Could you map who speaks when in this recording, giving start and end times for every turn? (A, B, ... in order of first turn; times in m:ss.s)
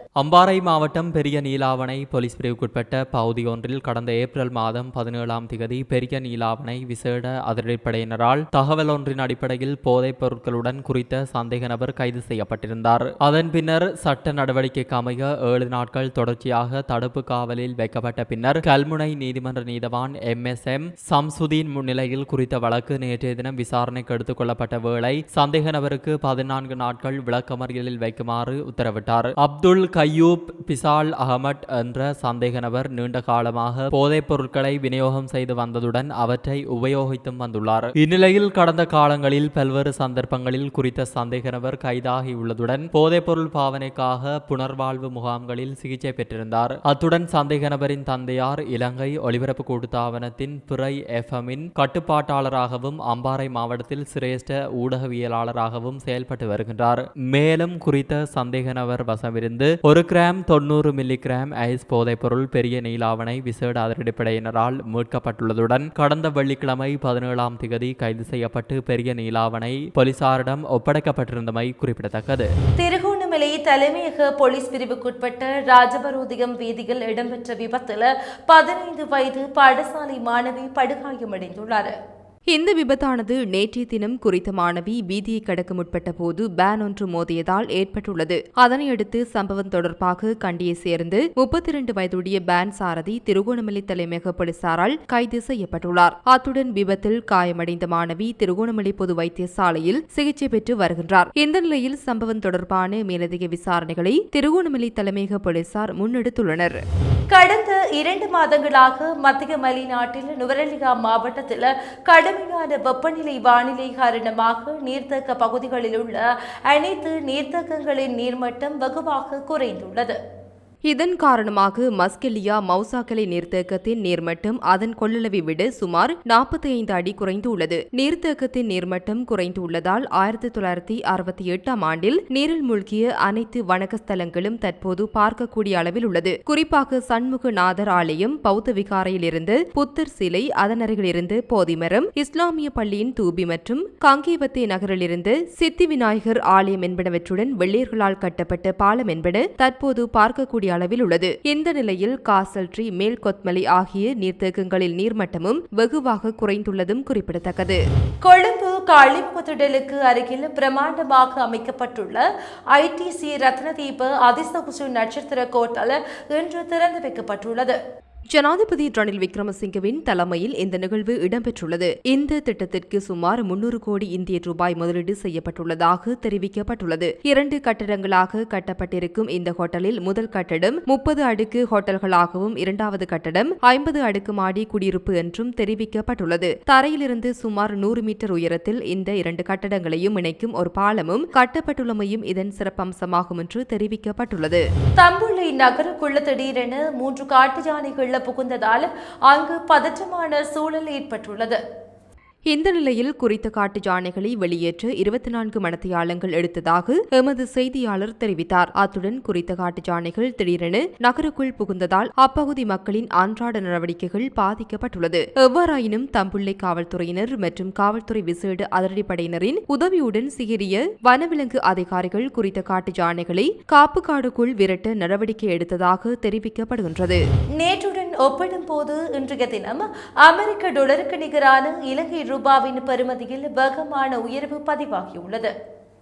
0:00.2-1:12.5 A
1:12.8-1:21.9 B
1:22.5-1:46.8 C
1:47.3-2:00.2 B
2:00.9-2:37.8 C
2:38.2-2:42.2 B
2:42.7-2:47.8 B
2:48.3-3:14.6 C
3:15.0-3:21.6 B
3:22.5-3:47.2 C
3:47.6-3:55.5 B